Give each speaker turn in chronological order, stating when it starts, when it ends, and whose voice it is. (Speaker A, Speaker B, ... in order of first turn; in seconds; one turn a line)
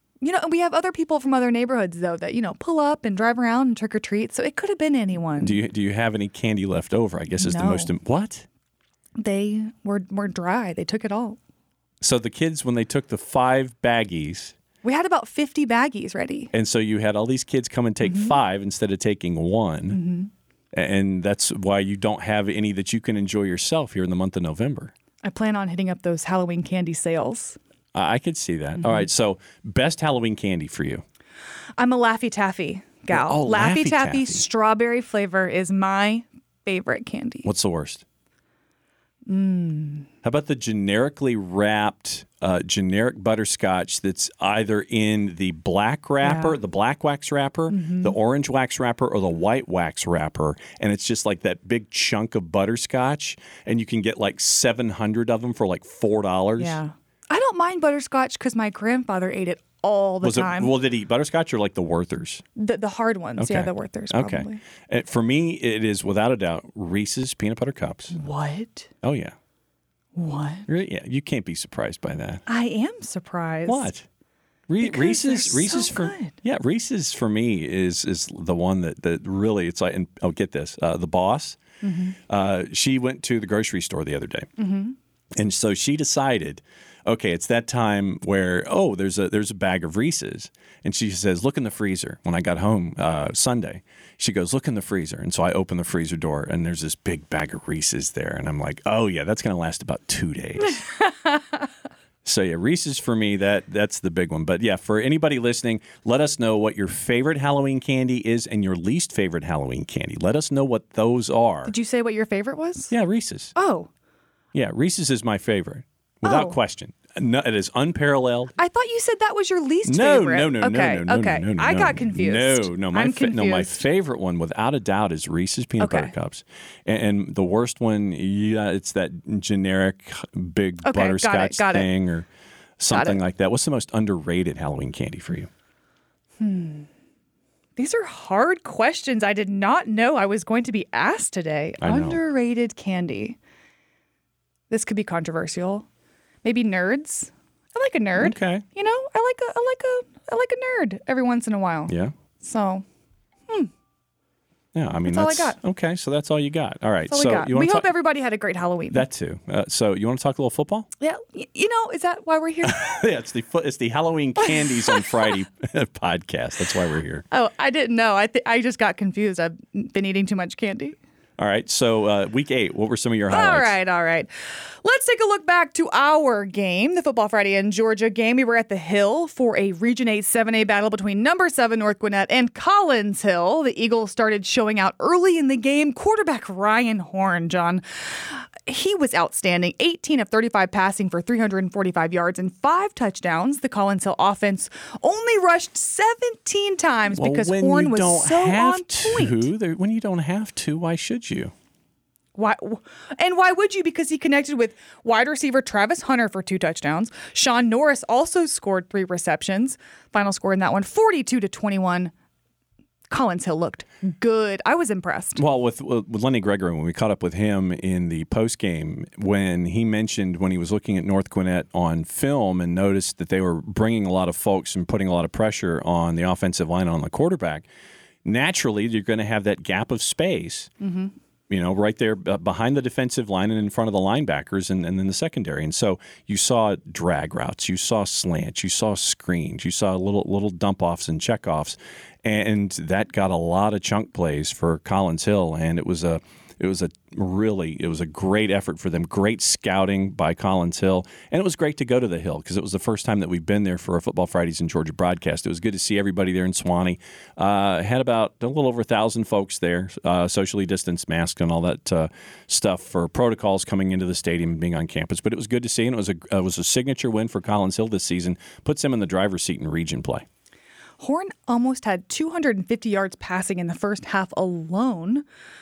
Speaker A: 0.2-5.6
Speaker B: 5.4-8.5
Speaker A: 7.4-7.9
Speaker A: 9.2-11.4
Speaker B: 12.0-14.6
Speaker A: 14.8-16.5
Speaker B: 16.5-20.0
Speaker A: 18.0-18.4
Speaker A: 19.9-20.3
Speaker B: 20.7-24.9
Speaker A: 25.2-27.6
Speaker B: 27.9-31.0
Speaker A: 28.8-29.0
Speaker A: 31.8-37.5
Speaker B: 33.1-34.4
Speaker B: 37.4-38.0
Speaker A: 39.3-40.1
Speaker B: 40.2-56.8
Speaker A: 46.2-46.6
Speaker A: 47.7-48.2
Speaker A: 56.6-60.7
Speaker B: 60.2-62.4
Speaker A: 62.6-64.6
Speaker B: 63.4-68.2
Speaker A: 68.1-68.9
Speaker B: 69.0-69.3
Speaker A: 70.2-70.7
Speaker B: 70.7-72.4
Speaker A: 72.5-73.9
Speaker B: 73.7-74.0
Speaker B: 74.7-81.6
Speaker A: 74.8-76.3
Speaker A: 81.8-82.2
Speaker B: 82.3-84.5
Speaker A: 84.6-85.0
Speaker B: 85.4-100.8
Speaker A: 101.1-101.4
Speaker B: 102.2-111.7
Speaker A: 111.7-112.9
Speaker B: 112.9-113.5
Speaker A: 113.5-113.9
Speaker B: 114.5-118.5
Speaker A: 116.2-116.6
Speaker A: 118.6-123.8
Speaker B: 119.9-132.3
Speaker A: 125.8-126.1
Speaker A: 130.8-131.9
Speaker B: 132.8-135.5
Speaker A: 132.9-133.2
Speaker A: 136.4-136.9
Speaker A: 137.8-143.4
Speaker B: 141.8-142.2
Speaker A: 144.7-145.9
Speaker A: 146.4-152.8
Speaker B: 148.2-148.7
Speaker B: 151.9-152.1
Speaker B: 154.7-157.9
Speaker A: 155.1-155.6
Speaker A: 157.1-159.0
Speaker B: 158.9-160.9
Speaker A: 161.0-163.0
Speaker B: 162.7-167.2
Speaker A: 164.4-165.1
Speaker A: 167.3-171.0
Speaker B: 171.4-173.7
Speaker A: 173.3-199.4
Speaker B: 197.1-201.5
Speaker A: 202.4-212.1
Speaker A: 213.1-215.4
Speaker B: 215.4-227.7
Speaker B: 228.2-230.7
Speaker A: 230.8-231.1
Speaker B: 231.5-270.2
Speaker A: 271.0-275.2